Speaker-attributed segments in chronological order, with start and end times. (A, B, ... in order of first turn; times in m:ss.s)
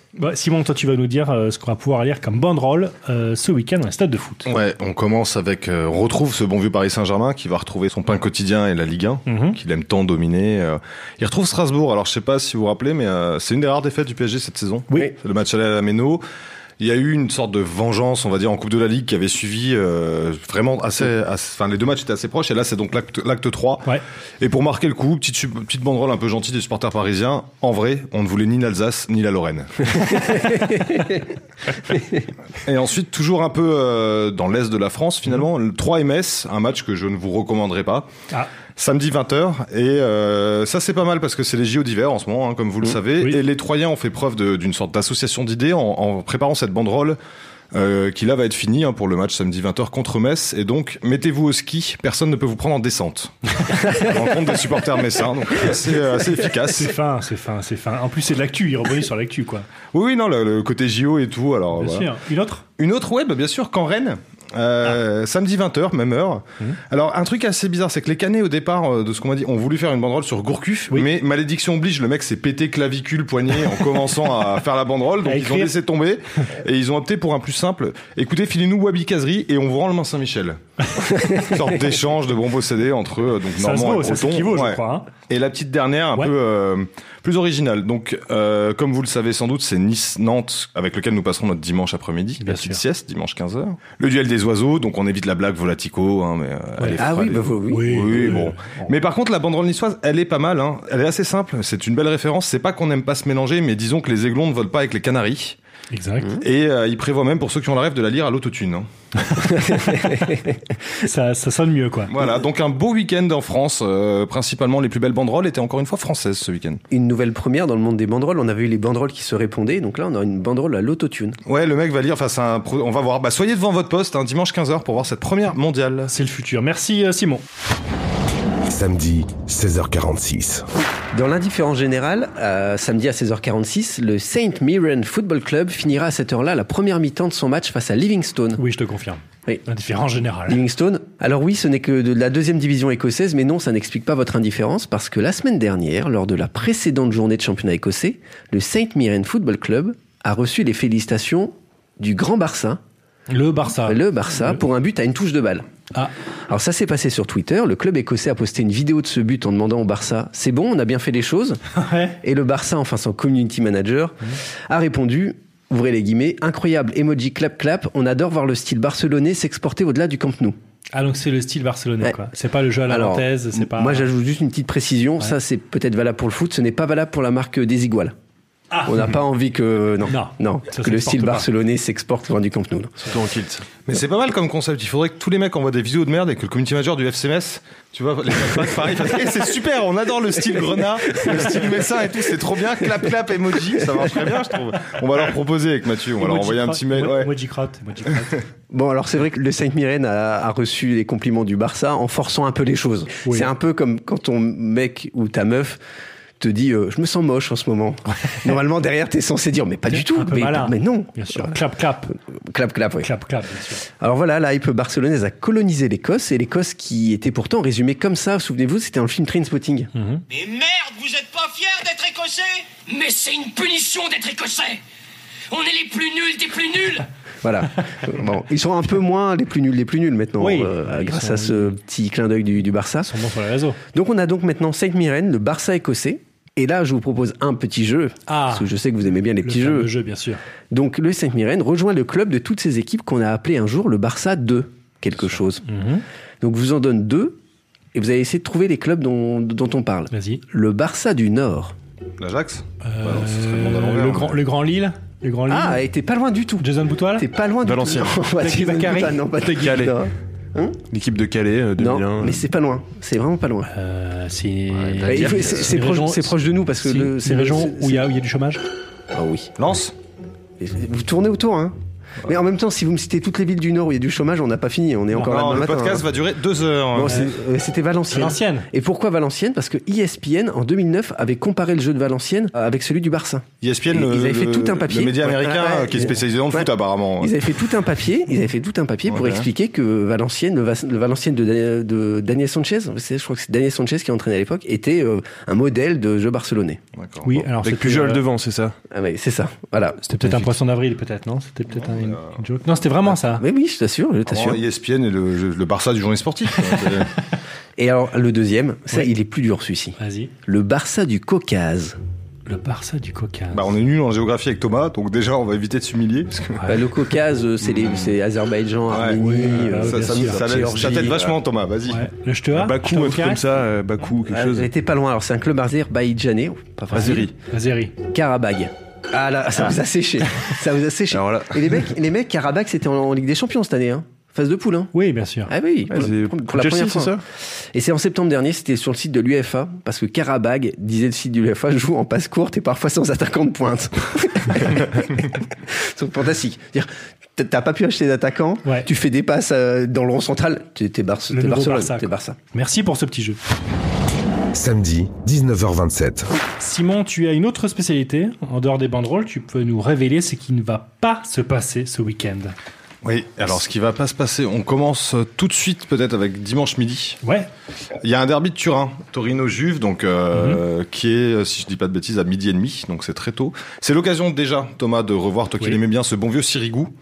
0:00.2-0:04.5 A
0:04.5-0:16.2 B
0:09.3-0:09.6 A
0:16.8-0:23.9 B
0:24.4-0:30.5 B
0:32.6-0:38.1 B
0:38.8-0:47.2 B
0:47.7-0:56.9 B
0:56.7-0:59.7 A
0:59.9-1:02.1 B
1:01.8-1:02.6 A
1:02.8-1:45.6 B
1:15.2-1:15.7 A
1:23.6-1:25.1 A
1:32.4-1:32.8 A
1:36.8-1:37.0 A
1:37.0-1:38.4 C
1:37.7-1:38.9 A
1:45.9-1:46.4 A
1:46.4-1:48.9 B
1:49.7-1:50.1 A
1:51.0-1:52.1 A
1:52.1-1:56.8 B
1:56.9-2:01.4 C
2:01.4-2:06.1 B
2:06.1-2:07.4 A
2:08.6-2:10.6 D
2:11.1-2:18.6 C
2:18.6-2:20.6 A
2:20.5-2:32.8 C
2:33.3-2:34.6 A
2:33.8-2:35.6 C
2:36.5-2:41.6 C
2:41.7-2:42.2 A
2:42.2-2:44.2 C
2:44.7-2:50.6 C
2:50.9-2:54.1 A
2:52.9-2:58.1 C
2:58.7-2:59.0 A
2:58.8-3:03.0 C
3:00.1-3:01.5 A
3:03.1-3:03.6 E
3:03.8-3:17.3 B
3:11.1-3:12.1 C
3:16.2-3:18.4 A
3:18.7-3:25.8 C
3:23.2-3:23.5 A
3:26.4-3:31.6 C
3:29.9-3:32.1 A
3:32.5-3:33.1 C
3:33.0-3:33.8 A
3:34.0-3:39.9 C
3:39.9-3:40.2 A
3:40.3-3:44.8 F
3:45.5-3:47.0 F
3:47.4-3:53.1 C
3:50.4-3:51.8 A
3:53.1-3:53.8 A
3:53.9-3:59.9 C
3:58.3-3:58.7 A
3:59.4-4:00.4 A
4:00.7-4:05.6 C
4:05.6-4:06.0 A
4:06.4-4:07.4 C
4:07.9-4:11.7 C
4:10.1-4:10.4 A
4:12.2-4:14.4 B
4:12.8-4:15.8 A
4:15.5-4:20.8 C
4:16.6-4:17.2 A
4:17.6-4:18.2 E
4:18.4-4:19.2 A
4:19.4-4:19.9 E
4:20.9-4:22.5 E
4:21.8-4:23.7 C
4:23.7-4:28.6 A
4:24.7-4:25.6 E
4:25.1-4:28.1 C
4:29.1-4:29.5 C
4:29.6-4:29.9 B
4:30.6-4:36.0 C
4:35.1-4:37.3 B
4:36.9-4:46.7 C
4:37.1-4:37.3 A
4:38.1-4:38.7 A
4:43.6-4:47.6 B
4:47.2-4:56.8 C
4:49.1-4:49.5 B
4:57.0-4:57.5 B
4:57.2-4:58.2 A
4:57.6-4:58.7 E
4:58.9-5:00.0 C
5:00.0-5:03.4 A
5:00.2-5:00.5 E
5:01.8-5:02.3 B
5:03.3-5:04.6 C
5:04.2-5:07.1 B
5:07.8-5:12.0 C
5:10.0-5:10.3 A
5:12.4-5:13.6 A
5:13.5-5:16.7 B
5:16.7-5:21.2 C
5:17.6-5:18.1 B
5:18.9-5:22.0 B
5:19.2-5:20.5 A
5:21.1-5:21.3 E
5:21.9-5:23.4 A
5:22.5-5:24.7 E
5:24.3-5:27.3 C
5:26.9-5:27.9 A
5:26.9-5:27.3 E
5:28.1-5:34.9 C
5:31.1-5:31.8 E
5:34.9-5:35.5 A
5:35.5-5:37.1 C
5:35.9-5:37.2 E
5:37.7-5:52.4 C
5:51.3-5:53.4 A
5:54.5-5:56.3 D
5:56.6-6:02.5 A
6:03.0-6:07.2 B
6:07.2-6:07.5 A
6:08.0-6:16.9 B
6:10.3-6:10.6 A